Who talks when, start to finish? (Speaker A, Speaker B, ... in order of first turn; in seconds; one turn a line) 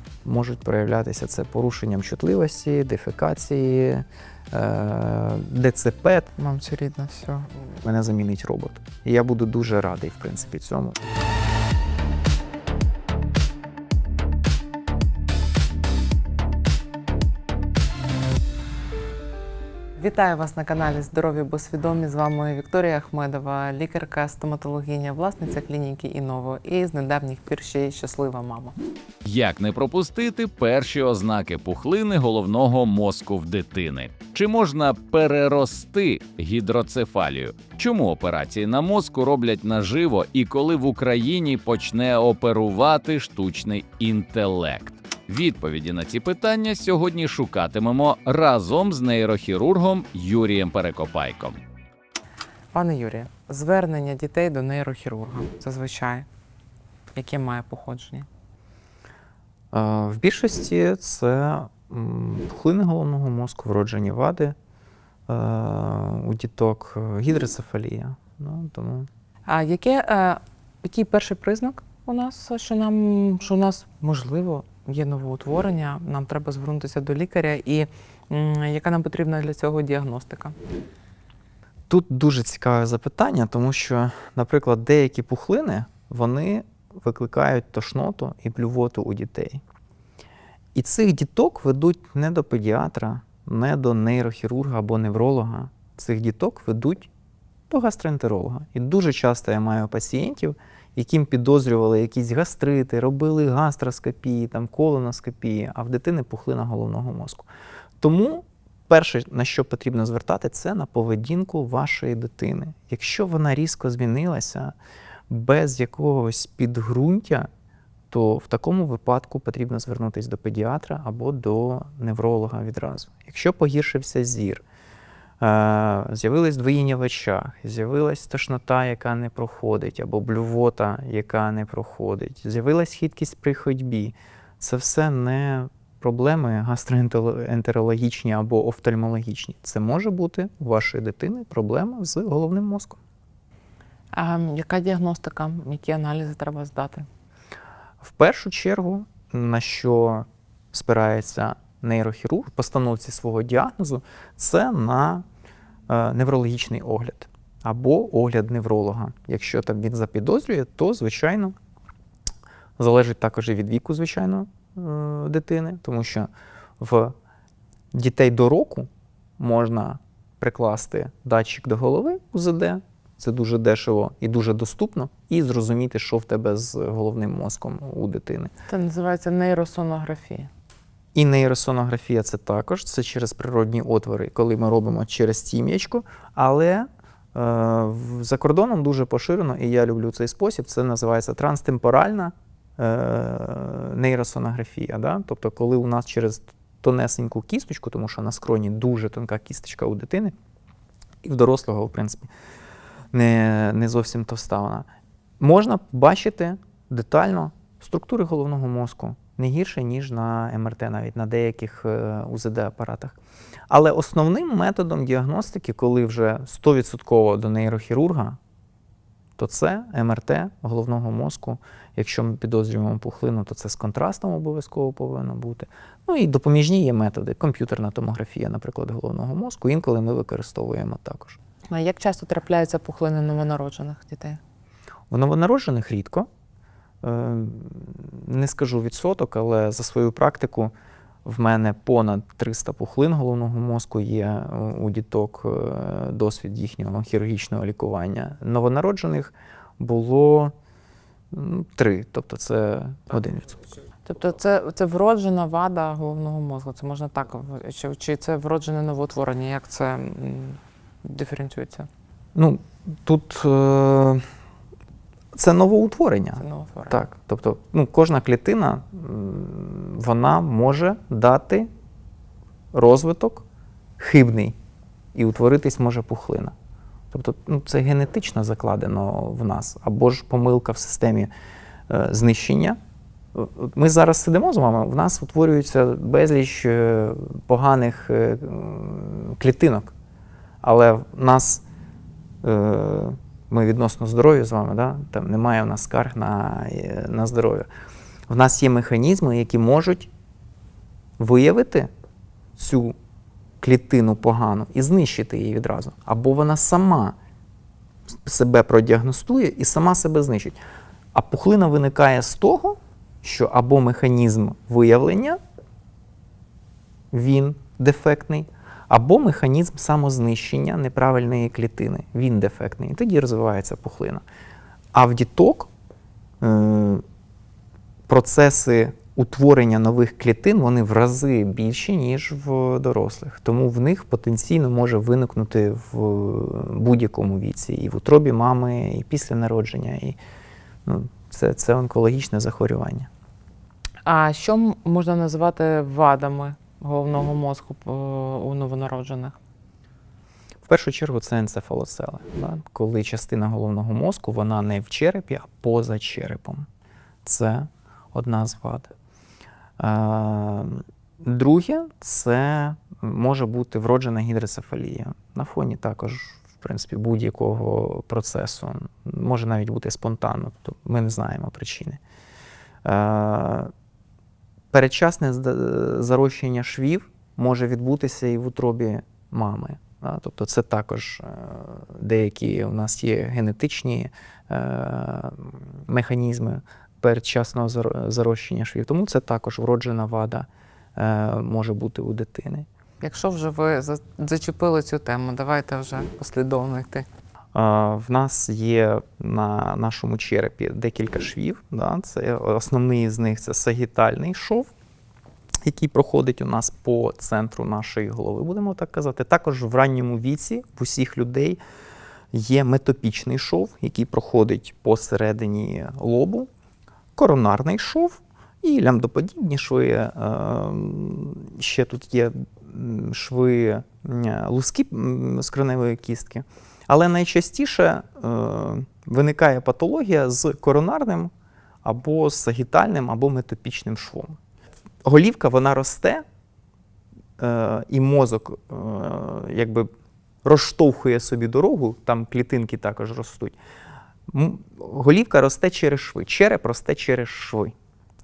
Speaker A: 0.2-6.3
Speaker B: 6.4-7.7
Speaker A: 7.8-11.0
Speaker B: 20.0-28.7
Speaker C: 29.2-51.6
Speaker B: 52.7-56.2
Speaker B: 57.1-58.3
Speaker A: 59.7-64.5
Speaker A: 65.3-69.1
Speaker B: 69.5-80.5
Speaker A: 81.9-89.6
Speaker A: 90.7-97.1
Speaker A: 97.7-107.5
Speaker A: 108.0-114.7
Speaker A: 115.3-117.5
Speaker A: 118.1-124.6
Speaker A: 125.4-143.0
Speaker B: 144.1-147.1
Speaker A: 148.0-155.2
Speaker A: 155.9-161.5
Speaker A: 162.8-166.3
Speaker A: 166.8-167.1
Speaker A: 167.9-178.5
Speaker B: 178.7-180.5
Speaker A: 181.1-200.3
Speaker A: 201.2-202.3
Speaker A: 203.1-204.9
Speaker A: 205.4-213.2
Speaker A: 213.7-218.4
Speaker A: 219.4-231.4
Speaker B: 231.7-234.4
Speaker A: 235.1-236.3
Speaker A: 237.0-240.7
Speaker A: 241.2-250.5
Speaker A: 251.3-253.6
Speaker B: 254.1-261.9
Speaker A: 262.3-264.2
Speaker A: 265.3-271.7
Speaker B: 266.4-267.0
Speaker A: 272.7-273.4
Speaker A: 274.0-274.6
Speaker A: 275.1-276.5
Speaker A: 277.1-281.3
Speaker A: 281.9-282.8
Speaker A: 283.3-289.9
Speaker A: 290.6-291.6
Speaker A: 292.4-297.7
Speaker A: 298.3-300.1
Speaker A: 301.2-301.9
Speaker A: 302.6-302.9
Speaker A: 303.6-307.1
Speaker A: 308.2-310.6
Speaker A: 311.1-315.4
Speaker A: 317.1-324.2
Speaker A: 324.9-325.7
Speaker A: 326.4-327.0
Speaker A: 328.1-340.2
Speaker A: 340.9-343.1
Speaker B: 344.0-349.4
Speaker A: 350.6-356.6
Speaker A: 357.2-358.9
Speaker A: 359.8-372.0
Speaker A: 372.8-373.7
Speaker A: 374.7-392.6
Speaker B: 393.0-397.1
Speaker A: 397.5-404.7
Speaker A: 405.6-411.6
Speaker A: 412.3-416.5
Speaker A: 417.1-431.3
Speaker A: 431.8-434.4
Speaker A: 435.0-436.2
Speaker A: 437.4-439.9
Speaker A: 440.4-443.5
Speaker A: 444.3-447.7